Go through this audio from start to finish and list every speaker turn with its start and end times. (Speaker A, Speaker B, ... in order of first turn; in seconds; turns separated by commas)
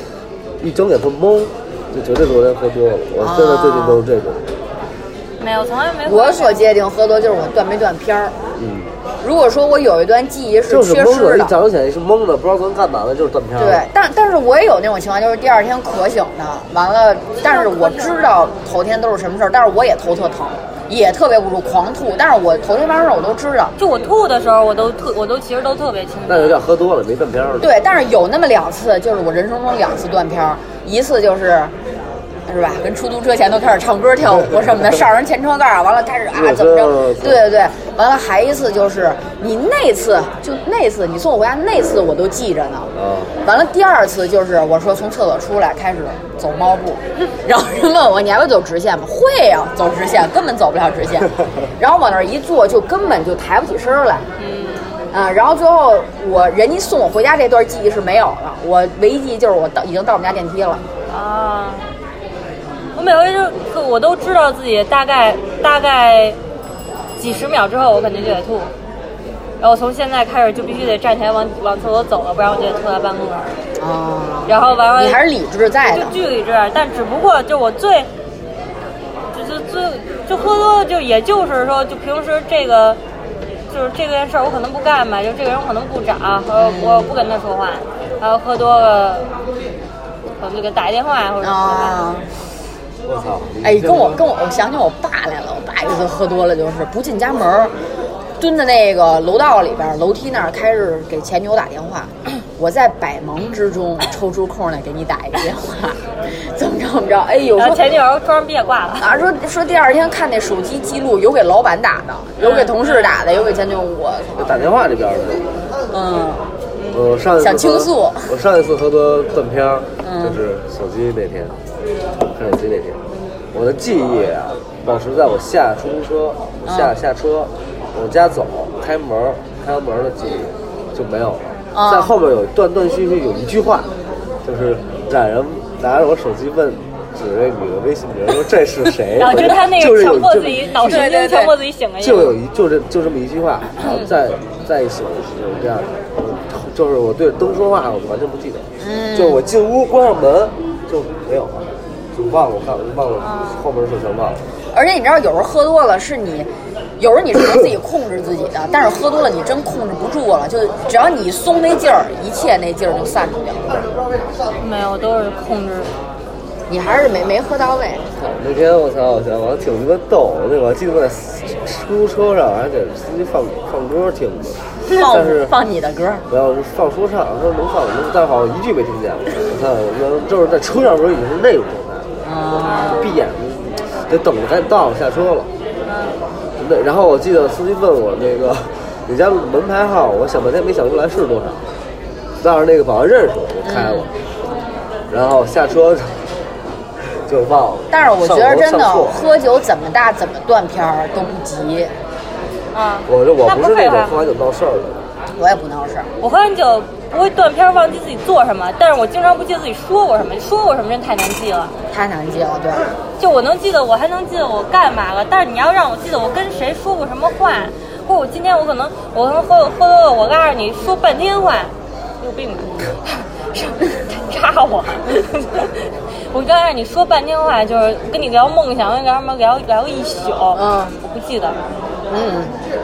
Speaker A: 0.6-4.5, Speaker B: 3.2-4.0, Speaker C: 5.4-6.6, Speaker B: 6.0-8.3, Speaker A: 8.6-8.9, Speaker B: 9.2-11.5, Speaker A: 10.7-13.9, Speaker B: 13.6-23.7, Speaker C: 17.4-18.3, Speaker C: 23.8-26.6, Speaker A: 26.3-27.7, Speaker B: 27.6-31.7, Speaker B: 32.5-54.2, Speaker A: 36.3-37.4, Speaker A: 43.0-43.3, Speaker C: 54.4-55.1, Speaker B: 55.1-60.8, Speaker C: 61.1-61.9, Speaker C: 63.0-66.4, Speaker C: 67.2-68.7, Speaker C: 69.6-73.6, Speaker B: 73.8-76.1, Speaker C: 74.5-75.2, Speaker C: 75.9-78.1, Speaker C: 79.3-83.0, Speaker C: 83.7-89.3, Speaker B: 86.5-87.1, Speaker C: 90.4-92.0, Speaker B: 91.4-92.3, Speaker A: 93.0-94.2, Speaker B: 93.6-97.7, Speaker B: 98.4-107.8, Speaker C: 107.5-109.1, Speaker B: 109.0-114.7, Speaker C: 112.4-113.2, Speaker A: 114.4-115.5, Speaker B: 115.9-116.4, Speaker C: 116.8-117.0, Speaker A: 116.9-121.5, Speaker B: 117.4-118.3, Speaker B: 120.0-120.4, Speaker A: 122.3-123.0, Speaker A: 123.5-133.9, Speaker B: 126.7-126.9, Speaker B: 131.7-132.1, Speaker A: 134.4-141.0, Speaker C: 139.1-142.3, Speaker B: 140.8-141.6, Speaker A: 142.0-154.4, Speaker B: 148.8-149.4, Speaker C: 153.2-153.6, Speaker B: 154.7-163.9, Speaker C: 164.6-165.9, Speaker B: 166.7-168.1, Speaker A: 168.2-175.5, Speaker B: 174.8-176.2, Speaker A: 176.3-182.1, Speaker B: 182.2-183.2, Speaker C: 182.6-183.1, Speaker A: 182.9-185.5, Speaker C: 185.8-186.2, Speaker A: 186.6-191.7, Speaker A: 192.4-194.1, Speaker B: 193.6-194.1, Speaker A: 195.1-196.2, Speaker A: 197.2-199.3, Speaker B: 197.9-201.9, Speaker C: 202.7-204.2, Speaker A: 203.1-205.0, Speaker B: 205.4-206.1, Speaker C: 206.2-211.7, Speaker B: 211.9-212.9, Speaker C: 213.2-231.6, Speaker B: 230.5-230.9, Speaker B: 232.1-232.6